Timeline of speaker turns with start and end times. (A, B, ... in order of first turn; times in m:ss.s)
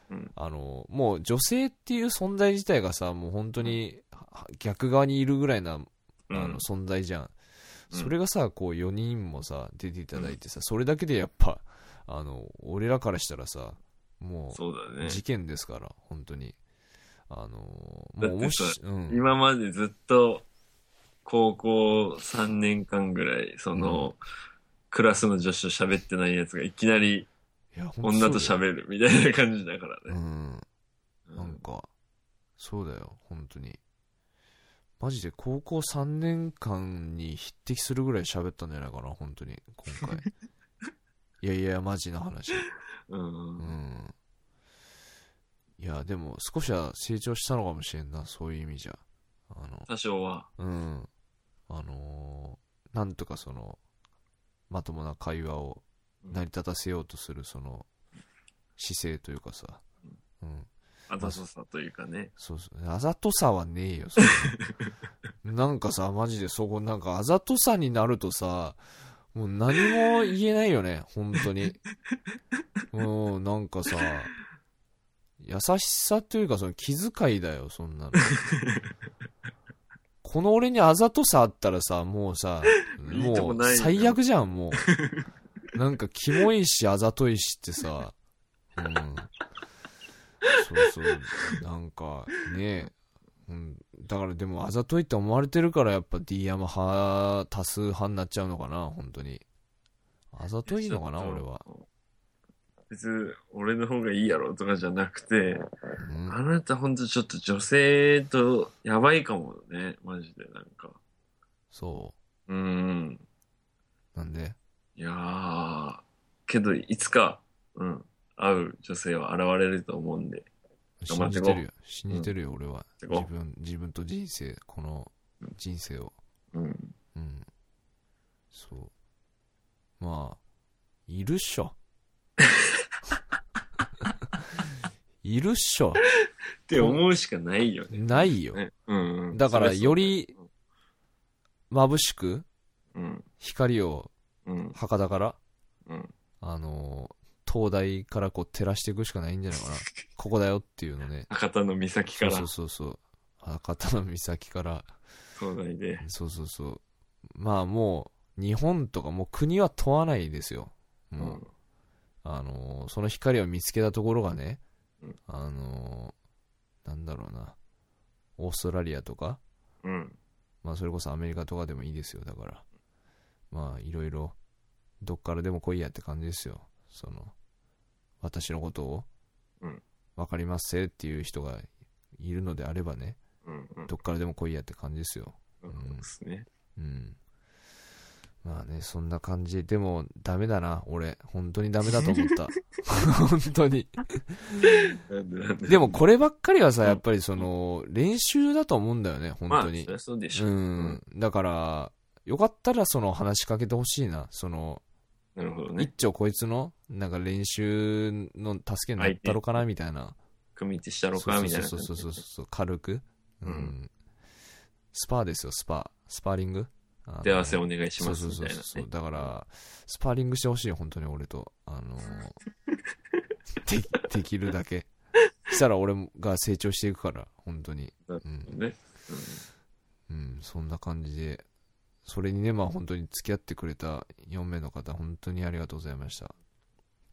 0:00.3-0:07.3 A
0:06.3-0:06.6 B
0:07.9-0:16.6 A
0:14.5-0:15.2 B
0:17.3-0:19.2 A
0:18.2-0:20.5 B
0:21.2-0:24.2 B
0:23.7-0:24.1 A
0:24.9-0:27.3 B
0:27.7-0:28.6 A
0:28.0-0:30.2 B
0:30.1-0:30.6 A
0:31.3-0:31.6 B
0:31.4-0:31.9 A
0:32.6-0:33.8 A
0:35.0-0:40.3 A
0:41.4-0:42.7 A
0:43.1-0:43.8 B
0:43.6-0:44.1 A
0:45.8-0:49.9 A
0:49.9-0:50.5 B
0:50.6-0:51.1 A
0:51.7-0:53.8 A
0:54.7-0:57.9 A
0:58.8-0:59.8 A
1:00.4-1:01.4 A
1:01.1-1:02.3 B
1:02.4-1:04.6 A
1:04.2-1:04.9 B
1:05.4-1:11.8 A
1:09.8-1:10.2 B
1:12.9-1:14.3 A
1:15.4-1:18.4 A
1:18.2-1:18.8 B
1:20.2-1:24.9 A
1:22.9-1:24.2 B
1:24.7-1:25.2 B
1:25.7-1:28.1 A
1:28.8-1:29.3 A
1:30.5-1:32.9 A
1:31.3-1:31.6 B
1:33.5-1:39.4 A
1:40.3-1:41.6 A
1:40.6-1:41.8 B
1:42.9-1:45.7 B
1:46.0-1:46.4 A
1:46.2-1:51.0 B
1:51.7-1:52.1 A
1:52.5-1:53.2 B
1:54.1-1:54.6 A
1:55.0-2:00.5 B
2:01.0-2:06.1 A
2:01.1-2:02.3 B
2:03.0-2:03.3 B
2:06.5-2:06.9 B
2:07.1-2:07.5 A
2:08.5-2:08.9 A
2:10.0-2:10.4 A
2:11.1-2:11.8 A
2:15.2-2:16.0 A
2:16.7-2:20.5 B
2:16.7-2:17.0 A
2:17.9-2:18.6 A
2:19.3-2:20.3 A
2:21.7-2:22.4 A
2:22.9-2:23.3 B
2:23.4-2:24.1 A
2:24.4-2:24.8 B
2:24.7-2:25.4 A
2:25.8-2:26.1 B
2:26.4-2:31.3 A
2:31.3-2:32.5 B
2:32.1-2:34.9 A
2:35.4-2:36.0 B
2:36.0-2:41.4 A
2:41.2-2:41.5 B
2:42.2-2:44.6 A
2:45.3-2:46.1 A
2:46.8-2:47.6 A
2:48.4-2:49.4 A
2:49.8-2:50.2 B
2:50.6-2:52.6 A
2:53.5-2:54.4 A
2:55.0-2:57.3 A
2:58.2-2:59.1 A
3:00.2-3:03.2 A
3:03.4-3:03.9 B
3:03.9-3:06.0 A
3:05.6-3:06.5 B
3:06.8-3:07.2 A
3:08.4-3:14.8 A
3:14.6-3:16.0 B
3:15.7-3:24.8 A
3:16.8-3:17.4 B
3:19.5-3:21.0 B
3:25.4-3:25.9 B
3:25.8-3:30.2 A
3:29.0-3:29.4 B
3:30.6-3:32.2 B
3:31.2-3:33.9 A
3:33.4-3:33.7 B
3:34.9-3:42.4 A
3:37.2-3:39.3 B
3:43.6-3:44.9 A
3:45.4-3:48.6 A
3:48.1-3:49.4 B
3:50.1-3:51.4 A
3:52.0-3:56.3 A